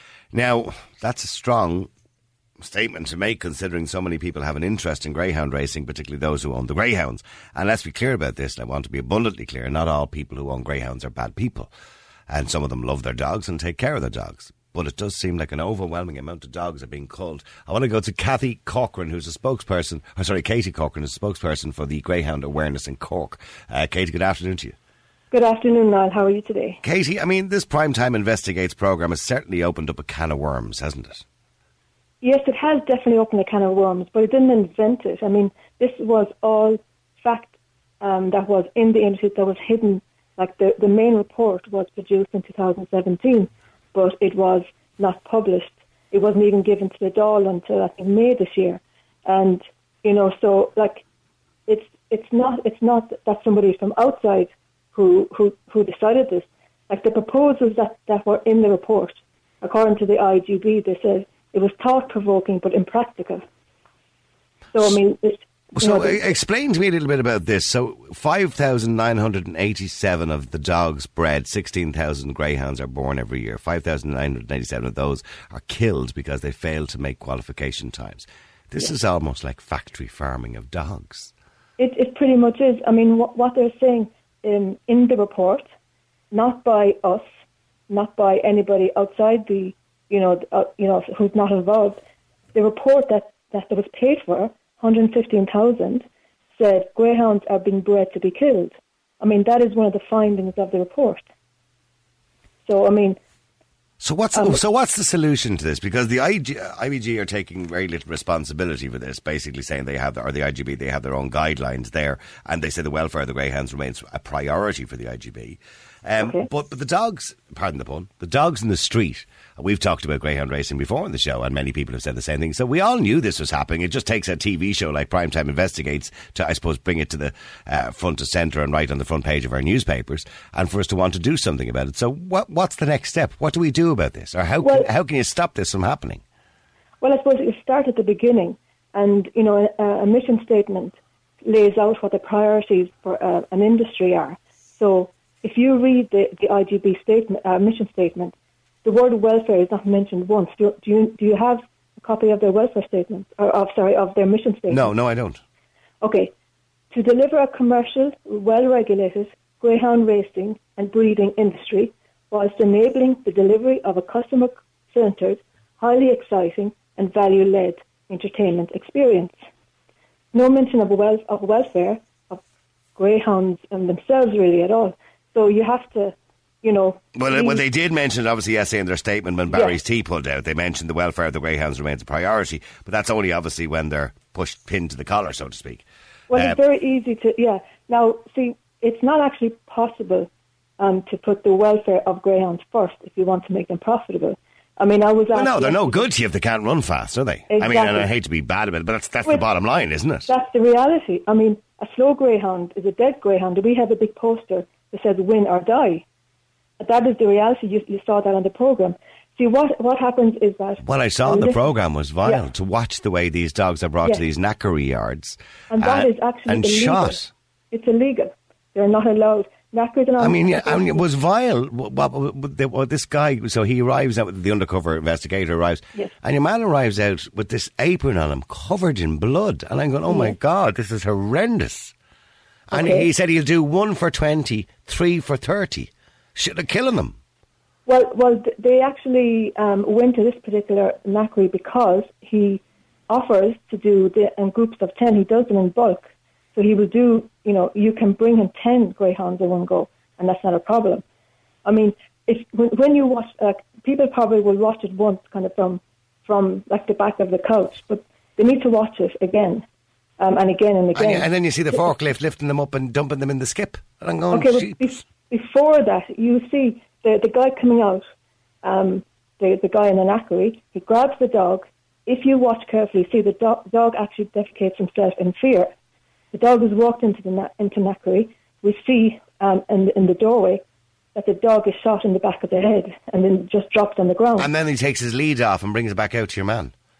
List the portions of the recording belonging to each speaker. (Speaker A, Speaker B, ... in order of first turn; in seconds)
Speaker A: 0.3-1.9, 2.6-11.7, 12.3-24.7, 26.8-31.2, 65.8-81.3, 104.0-136.2, 154.7-155.4, 177.1-186.6, 195.3-200.3, 210.8-217.3, 220.2-231.9, 232.7-237.2, 260.9-264.9, 284.4-286.7
Speaker B: 25.3-26.8, 32.2-51.0, 51.7-63.4, 64.7-66.2, 81.8-85.7, 86.3-87.3, 87.9-92.0, 92.5-96.0, 96.6-101.2, 102.7-103.2, 116.2-116.5, 134.6-134.9, 137.0-154.9, 156.0-156.3, 156.9-169.3, 170.3-172.4, 172.9-177.6, 179.5-179.8, 186.3-196.1, 197.5-198.1, 200.3-206.0, 206.8-211.7, 215.7-217.2, 217.7-221.0, 230.1-230.3, 232.7-233.1, 237.8-251.0, 251.6-259.6, 260.2-261.9, 264.3-268.0, 268.6-275.7, 276.3-280.6, 281.1-284.5